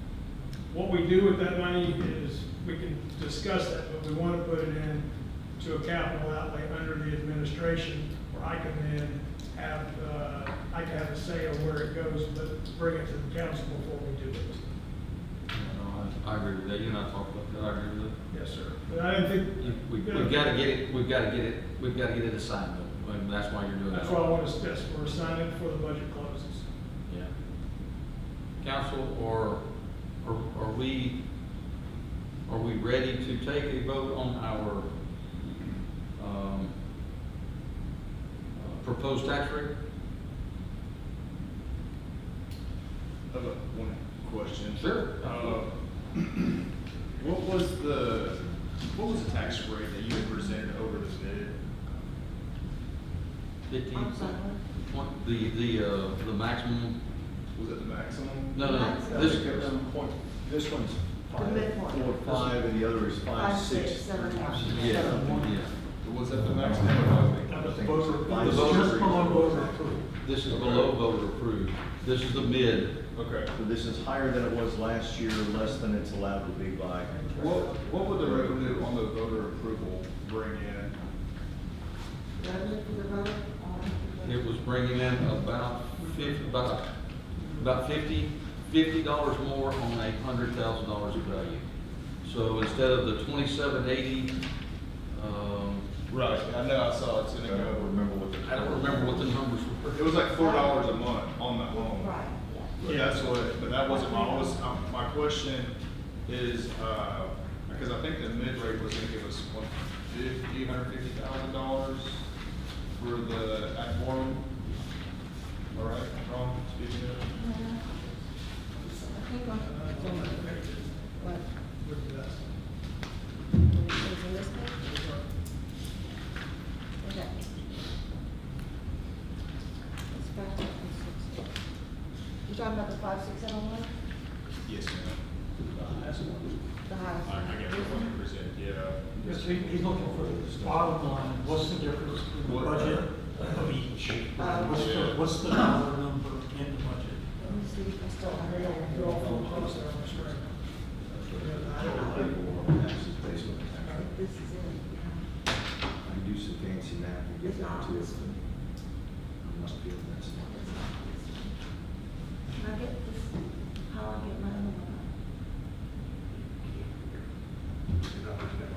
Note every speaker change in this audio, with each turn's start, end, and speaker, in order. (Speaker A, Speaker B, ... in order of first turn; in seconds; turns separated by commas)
Speaker A: 0.7-14.6, Speaker B: 15.5-18.1, Speaker A: 18.3-20.7, Speaker B: 19.6-24.2, Speaker A: 23.9-26.7, Speaker B: 28.6-29.6, Speaker B: 30.2-31.2, Speaker B: 32.5-34.9, Speaker B: 36.2-36.7, Speaker B: 38.5-39.7, Speaker C: 43.3-46.6, Speaker B: 44.7-45.2, Speaker C: 47.2-51.9, Speaker B: 53.7-57.0, Speaker D: 53.9-54.7, Speaker C: 57.5-60.2, Speaker B: 58.5-59.7, Speaker D: 58.6-59.4, Speaker E: 60.4-65.6, Speaker D: 61.3-62.7, Speaker D: 63.3-65.2, Speaker F: 64.4-65.6, Speaker B: 64.7-65.7, Speaker C: 66.0-67.7, Speaker E: 66.4-69.9, Speaker F: 66.6-70.1, Speaker B: 68.3-69.0, Speaker B: 70.2-73.0, Speaker C: 70.5-71.0, Speaker C: 73.1-73.5, Speaker E: 73.5-78.8, Speaker A: 77.1-78.6, Speaker C: 77.3-81.0, Speaker D: 82.4-84.7, Speaker B: 84.2-91.7, Speaker B: 92.2-94.4, Speaker B: 95.1-95.9, Speaker C: 96.1-98.0, Speaker E: 97.4-99.4, Speaker B: 98.4-100.0, Speaker C: 99.9-102.2, Speaker D: 100.3-101.1, Speaker D: 101.6-104.8, Speaker C: 102.8-105.8, Speaker C: 106.2-112.2, Speaker C: 112.9-114.5, Speaker C: 115.7-117.3, Speaker D: 117.3-118.2, Speaker D: 118.8-121.5, Speaker A: 119.5-122.6, Speaker D: 123.6-124.8, Speaker A: 124.8-125.2, Speaker D: 127.0-127.7, Speaker D: 130.1-131.5, Speaker D: 132.5-133.9, Speaker C: 134.7-135.2, Speaker C: 136.0-136.4, Speaker D: 136.8-138.2, Speaker C: 137.2-139.3, Speaker E: 139.2-142.2, Speaker F: 139.2-147.3, Speaker C: 142.4-143.5, Speaker D: 144.3-145.8, Speaker C: 144.8-145.3, Speaker D: 147.4-149.7, Speaker A: 148.2-150.6, Speaker E: 149.1-150.4, Speaker E: 151.0-154.1, Speaker A: 151.4-152.4, Speaker A: 153.8-154.1, Speaker D: 153.9-155.3, Speaker E: 156.0-158.4, Speaker D: 157.4-158.4, Speaker E: 159.4-160.8, Speaker D: 160.3-161.5, Speaker D: 162.5-165.1, Speaker D: 166.5-167.2